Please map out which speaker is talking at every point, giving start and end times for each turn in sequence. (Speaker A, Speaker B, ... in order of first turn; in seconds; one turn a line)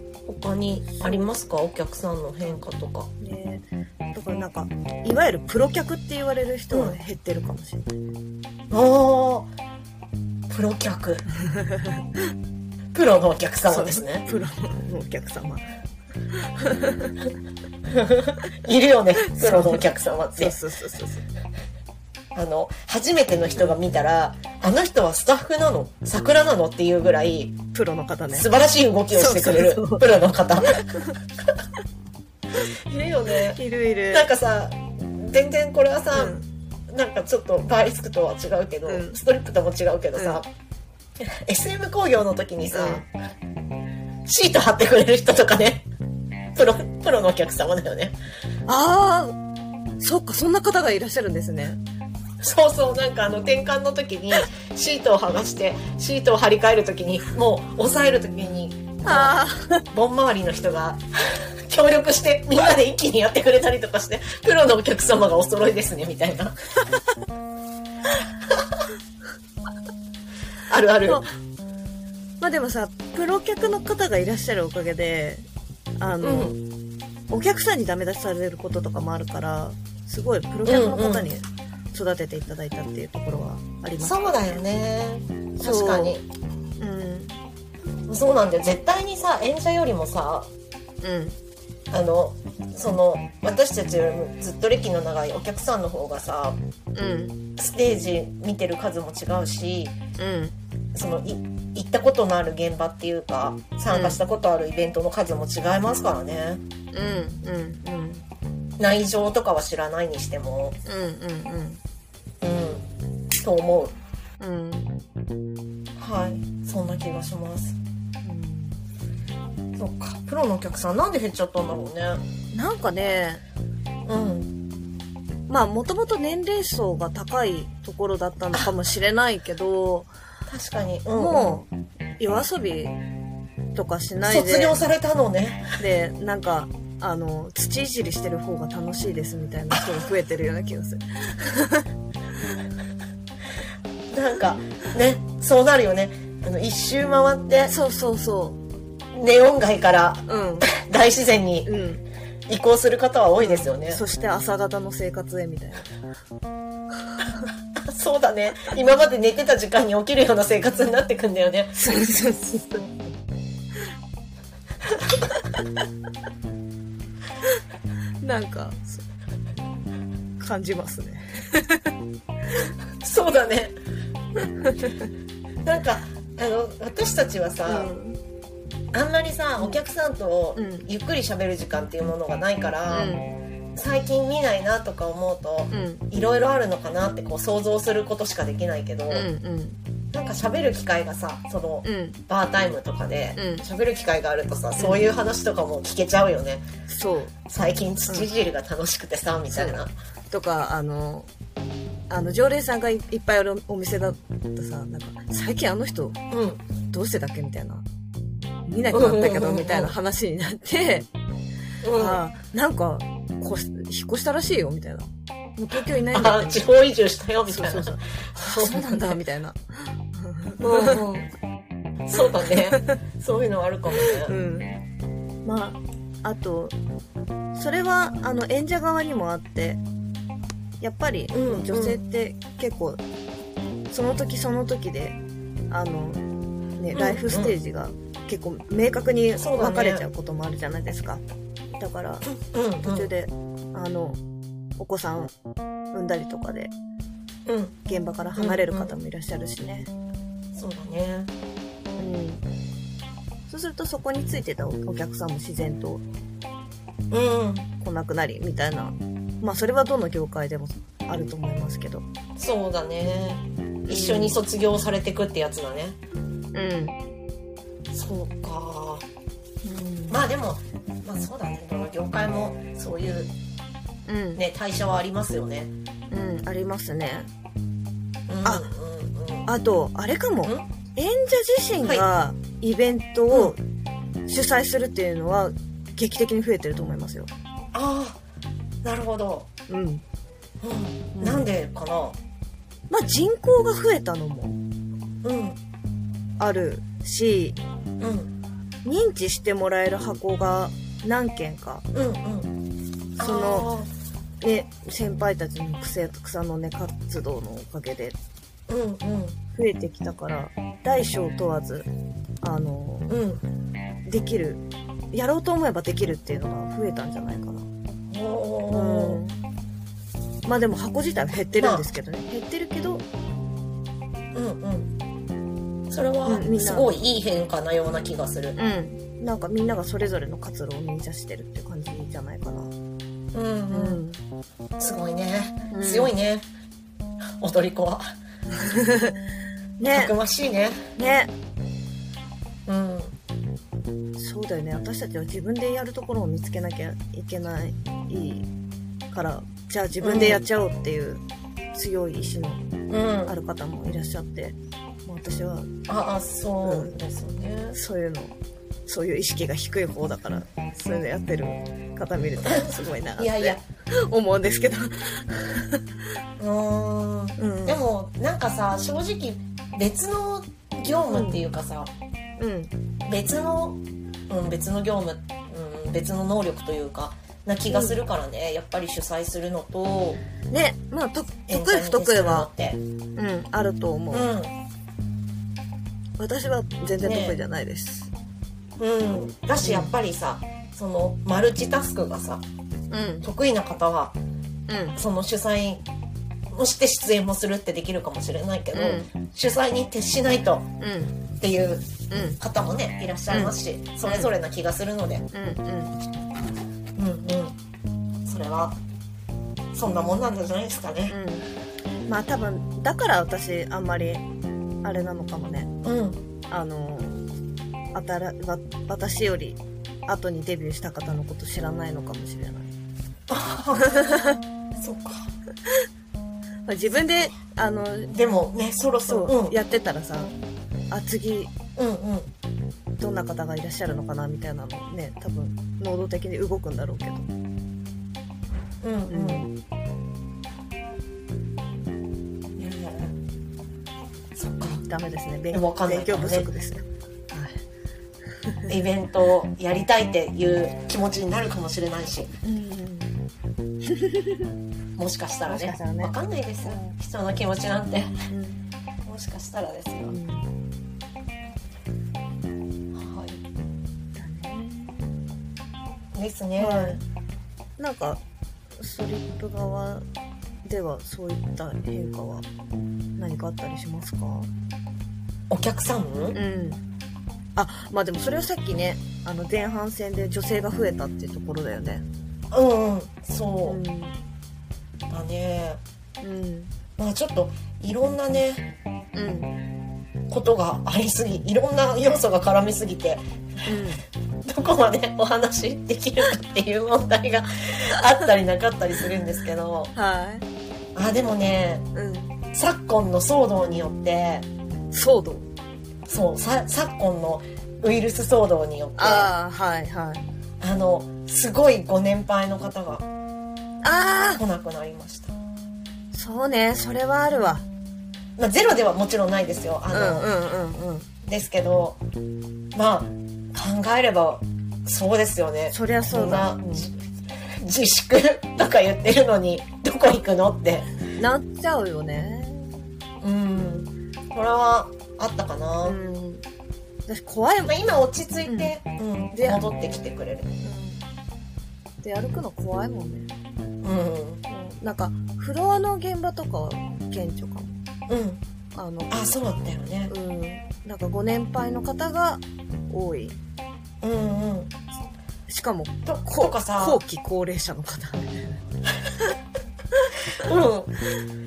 Speaker A: 0.3-3.1
Speaker B: 1.0-1.3
Speaker B: 3.2-7.8
Speaker A: 6.7-7.0
Speaker A: 8.7-9.5
Speaker A: 10.5-11.2
Speaker B: 11.4-12.2
Speaker A: 12.9-14.2
Speaker B: 13.7-15.7
Speaker B: 16.4-17.2
Speaker A: 17.9-20.6
Speaker B: 19.2-19.8
Speaker B: 20.3-21.2
Speaker A: 22.3-27.6
Speaker B: 27.7-28.5
Speaker A: 28.3-30.9
Speaker B: 29.1-30.1
Speaker B: 30.7-31.1
Speaker A: 32.9-33.6
Speaker B: 33.5-34.3
Speaker A: 34.1-36.4
Speaker B: 36.1-36.5
Speaker A: 36.9-40.5
Speaker B: 38.9-39.2
Speaker B: 40.2-40.4
Speaker A: 41.2-43.1
Speaker B: 42.7-43.0
Speaker A: 44.3-45.9
Speaker A: 46.5-48.2
Speaker B: 48.7-49.4
Speaker B: 50.0-51.8
Speaker A: 52.4-59.4
Speaker B: 59.0-59.8
Speaker A: 59.9-66.5
Speaker A: 70.7-71.2
Speaker B: 72.4-75.5
Speaker B: 76.0-76.6
Speaker A: 76.2-76.6
Speaker B: 77.3-84.2
Speaker A: 80.7-81.3
Speaker A: 84.0-86.2
Speaker B: 85.6-86.2
Speaker B: 86.8-87.4
Speaker A: 88.1-90.5
Speaker B: 91.0-91.4
Speaker A: 91.9-96.6
Speaker B: 97.0-97.4
Speaker A: 97.6-100.0
Speaker B: 100.2-100.5
Speaker A: 101.0-106.6
Speaker B: 103.9-104.2
Speaker B: 106.9-108.2
Speaker A: 108.8-110.8
Speaker B: 110.9-111.8
Speaker A: 112.4-112.8
Speaker A: 113.4-113.9
Speaker B: 114.4-115.0
Speaker A: 116.0-117.8
Speaker B: 118.2-118.8
Speaker A: 119.8-122.2
Speaker B: 122.5-123.4
Speaker A: 124.1-124.5
Speaker B: 125.5-130.1
Speaker A: 130.5-131.6
Speaker B: 131.1-133.0
Speaker B: 133.8-134.8
Speaker A: 134.3-135.7
Speaker B: 135.8-141.9
Speaker A: 139.7-140.0
Speaker A: 144.1-147.7
Speaker B: 147.7-148.6
Speaker A: 149.1-151.7
Speaker B: 150.3-150.7
Speaker B: 151.7-152.0
Speaker A: 152.5-154.0
Speaker B: 153.4-155.9
Speaker B: 157.1-157.5
Speaker A: 157.8-161.8
Speaker B: 161.8-162.9
Speaker B: 168.2-169.0
Speaker B: 170.4-171.9
Speaker A: 173.0-173.8
Speaker B: 174.4-175.1
Speaker A: 175.7-177.9
Speaker B: 177.7-178.2
Speaker A: 178.9-183.2
Speaker B: 180.6-180.9
Speaker B: 182.9-183.3
Speaker A: 183.8-189.3
Speaker B: 185.7-186.1
Speaker B: 189.1-189.8
Speaker A: 190.1-196.6
Speaker B: 191.8-192.2
Speaker B: 193.4-193.7
Speaker B: 194.8-195.1
Speaker B: 196.9-197.4
Speaker A: 197.5-199.9
Speaker B: 199.5-199.8
Speaker B: 200.3-201.3
Speaker B: 202.1-206.2
Speaker A: 206.3-206.6
Speaker B: 206.9-207.8
Speaker B: 208.7-211.1
Speaker A: 208.9-209.9
Speaker A: 211.8-212.2
Speaker B: 211.9-216.7
Speaker A: 216.1-219.2
Speaker B: 217.5-221.1
Speaker A: 220.6-221.3
Speaker A: 222.1-224.3
Speaker B: 222.4-223.0
Speaker B: 224.0-224.8
Speaker B: 225.4-226.8
Speaker B: 227.5-229.8
Speaker B: 230.8-233.0
Speaker A: 231.3-232.0
Speaker B: 233.9-235.2
Speaker B: 235.7-236.2
Speaker B: 236.8-241.2
Speaker A: 236.9-237.5
Speaker A: 239.4-240.1
Speaker B: 241.8-244.2
Speaker A: 242.3-243.1
Speaker B: 244.8-245.3
Speaker B: 245.9-246.7
Speaker A: 247.5-247.8
Speaker B: 247.9-249.9
Speaker A: 248.4-248.9
Speaker A: 250.5-251.3
Speaker B: 252.0-252.4
Speaker B: 253.5-256.0
Speaker A: 257.1-257.7
Speaker B: 257.8-262.1
Speaker A: 262.4-266.0
Speaker B: 263.9-264.4
Speaker B: 266.5-267.0
Speaker A: 267.9-269.1
Speaker B: 269.6-270.2
Speaker A: 270.1-273.3
Speaker B: 274.1-274.4
Speaker A: 274.4-275.7
Speaker B: 276.1-277.3
Speaker A: 278.3-279.5
Speaker B: 279.5-283.6
Speaker B: 284.3-287.3
Speaker A: 287.7-288.2
Speaker A: 288.8-289.5
Speaker B: 289.7-290.0
Speaker A: 290.6-292.2
Speaker B: 291.1-291.5
Speaker B: 292.9-294.6
Speaker A: 295.2-295.6
Speaker B: 296.4-297.6
Speaker A: 298.0-298.3
Speaker B: 298.9-301.9
Speaker A: 301.9-302.5
Speaker A: 303.2-303.9
Speaker B: 303.2-303.7
Speaker B: 304.4-308.2
Speaker A: 308.7-309.4
Speaker B: 309.6-311.9
Speaker B: 312.4-313.1
Speaker A: 313.1-313.4
Speaker B: 314.1-317.7
Speaker A: 318.1-319.2
Speaker B: 318.7-319.4
Speaker B: 320.4-323.1
Speaker A: 321.6-321.9
Speaker A: 324.3-324.9
Speaker A: 325.9-328.6
Speaker B: 326.2-326.9
Speaker B: 328.6-332.7
Speaker A: 333.3-334.0
Speaker B: 333.7-334.2
Speaker A: 334.8-336.5
Speaker B: 335.7-336.1
Speaker A: 337.4-338.1
Speaker B: 338.5-339.2
Speaker B: 339.8-340.1
Speaker A: 339.9-340.8
Speaker B: 341.0-341.3
Speaker A: 342.7-343.2
Speaker B: 344.2-348.5
Speaker B: 349.1-351.2
Speaker A: 350.0-350.4
Speaker B: 351.7-352.6
Speaker A: 352.9-353.3
Speaker B: 353.3-355.7
Speaker A: 355.9-357.8
Speaker B: 356.6-357.0
Speaker B: 357.7-358.4
Speaker B: 358.9-365.8
Speaker A: 362.5-363.6
Speaker A: 366.4-371.9
Speaker B: 367.4-367.8
Speaker B: 371.1-371.4
Speaker B: 372.4-372.7
Speaker A: 373.1-373.8
Speaker A: 374.3-380.2
Speaker B: 377.7-378.0
Speaker B: 380.5-382.5
Speaker A: 381.5-382.8
Speaker B: 383.2-384.3
Speaker A: 384.1-384.5
Speaker B: 386.2-388.1
Speaker A: 387.0-387.4
Speaker A: 388.8-392.4
Speaker B: 389.6-389.9
Speaker B: 392.9-393.3
Speaker A: 393.2-394.2
Speaker B: 394.7-395.0
Speaker A: 395.0-395.8
Speaker A: 396.5-400.7
Speaker B: 398.7-399.1
Speaker B: 400.8-401.2
Speaker A: 401.4-405.3
Speaker B: 402.1-402.4
Speaker B: 403.3-404.3
Speaker B: 405.3-406.0
Speaker A: 407.0-407.6
Speaker A: 408.3-408.8
Speaker A: 409.7-411.2
Speaker B: 411.1-411.5
Speaker B: 412.1-414.2
Speaker B: 414.8-415.7
Speaker A: 415.8-416.2
Speaker B: 416.5-417.2
Speaker B: 417.9-422.7
Speaker A: 423.3-425.3
Speaker B: 423.8-424.4
Speaker B: 426.7-428.1
Speaker A: 428.1-429.6
Speaker B: 429.1-430.3
Speaker B: 430.9-431.5
Speaker A: 431.8-432.3
Speaker B: 433.0-437.3
Speaker A: 438.8-439.5
Speaker B: 439.1-439.5
Speaker A: 442.6-443.1
Speaker A: 444.4-444.8
Speaker B: 444.6-447.6
Speaker A: 445.5-446.5
Speaker B: 448.4-448.7
Speaker A: 448.7-452.3
Speaker B: 452.4-453.1
Speaker B: 453.8-454.5
Speaker A: 455.0-458.2
Speaker B: 455.5-457.0
Speaker B: 458.3-458.6
Speaker A: 459.1-460.2
Speaker B: 460.0-460.5
Speaker A: 462.9-463.4
Speaker B: 464.2-465.1
Speaker A: 466.1-467.0
Speaker B: 466.6-467.0
Speaker B: 467.8-468.2
Speaker B: 468.8-470.1
Speaker B: 470.6-472.5
Speaker B: 473.2-474.5
Speaker A: 475.5-476.4
Speaker B: 476.3-476.8
Speaker B: 477.6-482.0
Speaker A: 482.5-483.8
Speaker B: 483.6-484.2
Speaker A: 485.1-485.8
Speaker B: 486.2-486.7
Speaker A: 487.0-488.7
Speaker B: 489.1-489.6
Speaker A: 490.3-493.2
Speaker B: 493.7-494.0
Speaker A: 494.4-499.9
Speaker B: 499.9-500.5
Speaker A: 500.9-501.9
Speaker B: 501.9-502.4
Speaker A: 502.5-504.5
Speaker B: 504.9-505.5
Speaker A: 506.1-509.3
Speaker B: 509.0-510.3
Speaker A: 510.6-513.1
Speaker B: 513.8-514.4
Speaker A: 514.4-515.4
Speaker B: 516.1-517.6
Speaker A: 518.4-520.3
Speaker B: 519.9-521.1
Speaker A: 521.2-522.0
Speaker A: 522.8-530.9
Speaker B: 525.7-526.9
Speaker B: 531.1-532.9
Speaker A: 533.2-536.0
Speaker B: 535.8-536.4
Speaker B: 537.1-537.8
Speaker A: 537.7-540.5
Speaker B: 538.5-538.8
Speaker B: 539.3-539.7
Speaker B: 540.6-541.1
Speaker B: 542.0-543.4
Speaker A: 543.8-544.4
Speaker B: 544.5-547.8
Speaker A: 548.1-548.4
Speaker B: 548.8-549.2
Speaker A: 549.1-550.1
Speaker B: 550.1-553.4
Speaker A: 554.0-554.7
Speaker B: 555.5-558.6
Speaker A: 556.1-557.0
Speaker A: 560.4-560.9